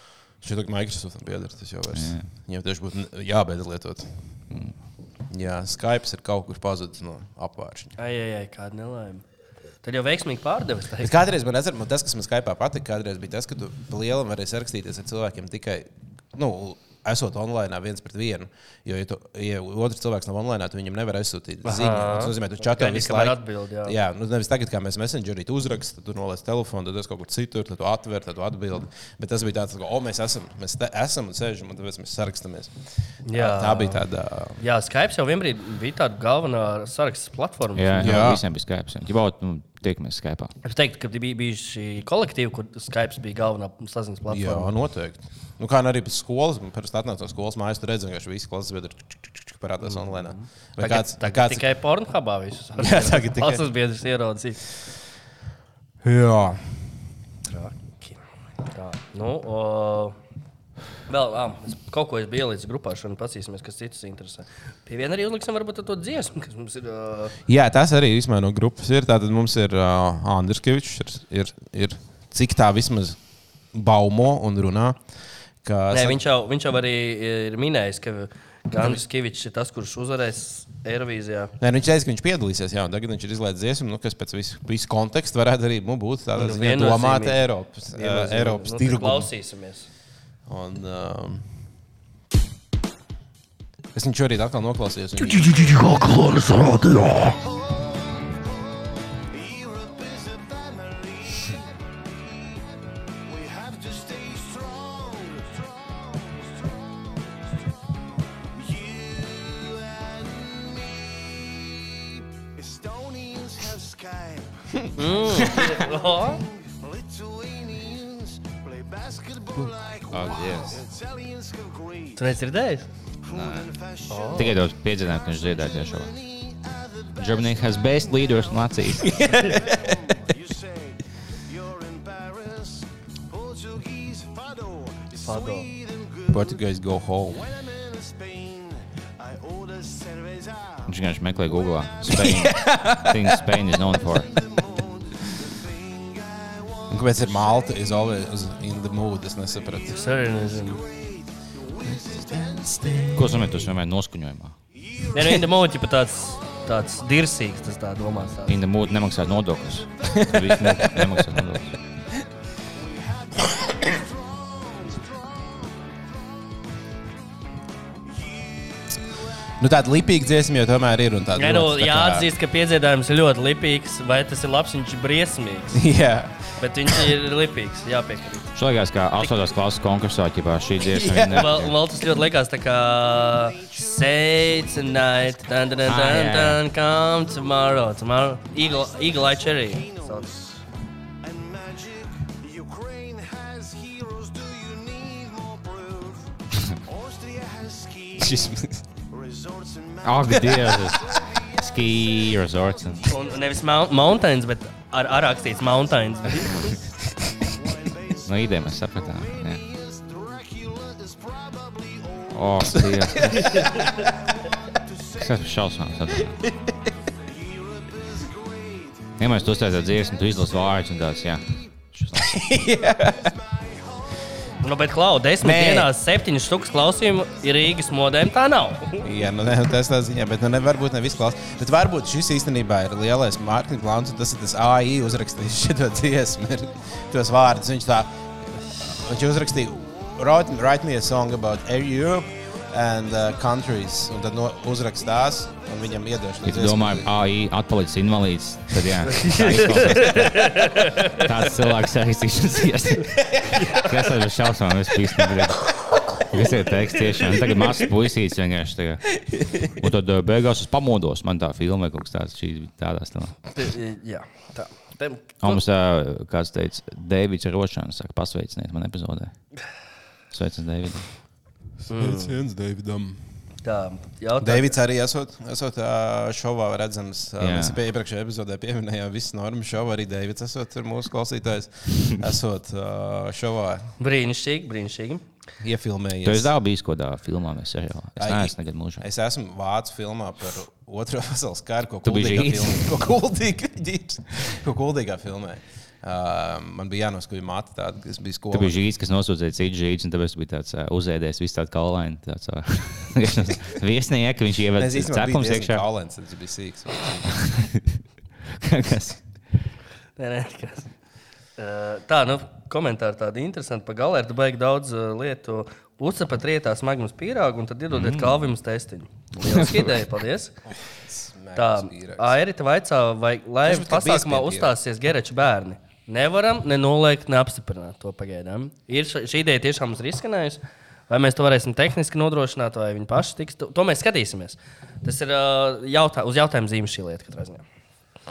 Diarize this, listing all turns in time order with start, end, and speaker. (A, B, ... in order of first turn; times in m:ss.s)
0:00.4-0:04.1 A
0:01.9-0:02.3 B
0:05.3-0:08.0 A
0:08.0-0:09.2 C
0:09.8-0:11.2 C
0:11.0-0:32.8 A
0:21.6-0:24.0 C
0:33.2-0:34.0 C
0:33.3-0:34.6 A
0:34.6-0:38.3 C
0:37.8-0:40.5 B
0:38.0-0:38.4 A
0:40.6-0:44.7 C
0:44.3-0:51.6 A
0:49.8-0:54.6 C
0:52.8-0:53.6 A
0:56.0-0:56.7 A
0:57.4-0:58.2 C
0:58.7-1:00.2 C
1:01.1-1:07.4 C
1:07.5-1:13.2 A
1:13.7-1:15.0 A
1:15.6-1:16.2 A
1:15.9-1:21.5 C
1:18.7-1:19.0 A
1:21.6-1:29.3 A
1:26.4-1:27.4 C
1:27.9-1:29.9 C
1:30.5-1:31.5 A
1:33.9-1:35.9 A
1:35.2-1:37.4 C
1:37.3-1:42.7 D
1:43.2-1:47.6 D
1:48.4-2:02.5 D
1:55.0-1:56.4 C
2:00.1-2:00.8 B
2:02.2-2:02.9 C
2:03.2-2:16.6 D
2:03.3-2:03.7 B
2:04.1-2:04.6 C
2:04.3-2:06.1 B
2:07.2-2:09.3 B
2:09.0-2:10.0 A
2:15.2-2:15.7 C
2:16.3-2:17.4 A
2:17.3-2:21.7 D
2:20.9-2:24.3 B
2:22.1-2:23.4 A
2:23.3-2:28.0 D
2:26.9-2:30.0 A
2:29.7-2:33.4 D
2:29.9-2:30.8 C
2:32.3-2:33.4 A
2:33.1-2:34.6 B
2:34.7-2:37.0 D
2:35.1-2:38.6 C
2:38.5-2:41.7 B
2:40.0-2:40.3 D
2:40.1-2:41.1 A
2:42.7-2:45.9 D
2:48.1-2:49.0 D
2:49.6-2:52.3 A
2:51.4-2:55.8 C
2:55.7-2:57.1 A
2:56.6-2:58.5 C
2:58.5-3:01.8 B
3:00.8-3:01.6 A
3:01.3-3:10.3 C
3:02.9-3:06.2 D
3:05.8-3:06.6 B
3:07.4-3:07.9 D
3:08.4-3:10.6 D
3:11.2-3:24.0 D
3:18.2-3:18.8 A
3:20.0-3:23.0 B
3:23.0-3:26.8 C
3:25.1-3:26.9 D
3:27.4-3:36.2 D
3:28.3-3:29.6 B
3:32.3-3:33.5 B
3:32.6-3:34.1 A
3:35.2-3:36.3 B
3:36.2-3:36.7 A
3:37.1-3:40.8 D
3:39.2-3:42.4 B
3:42.2-3:43.3 A
3:42.6-3:44.5 D
3:44.6-3:49.1 C
3:45.4-3:45.9 A
3:47.2-3:47.8 D
3:49.0-3:58.1 A
3:58.9-4:07.1 A
4:05.6-4:05.8 D
4:06.4-4:23.4 B
4:09.1-4:11.3 C
4:13.4-4:14.1 C
4:23.6-4:25.6 C
4:25.4-4:29.3 B
4:30.3-4:31.1 B
4:31.9-4:32.4 C
4:31.9-4:33.2 A
4:33.6-4:34.7 C
4:34.4-4:44.0 A
4:37.4-4:37.8 B
4:44.0-4:45.3 C
4:45.6-4:46.5 A
4:46.2-4:49.0 B
4:48.2-4:58.8 A
4:52.0-4:52.9 B
4:58.5-5:05.8 B
5:04.8-5:07.4 A
5:07.3-5:08.0 B
5:08.5-5:09.2 B
5:10.2-5:10.9 C
5:11.6-5:20.6 C
5:17.9-5:18.5 B
5:19.5-5:19.8 B
5:20.7-5:22.4 A
5:21.6-5:37.6 C
5:23.6-5:24.8 A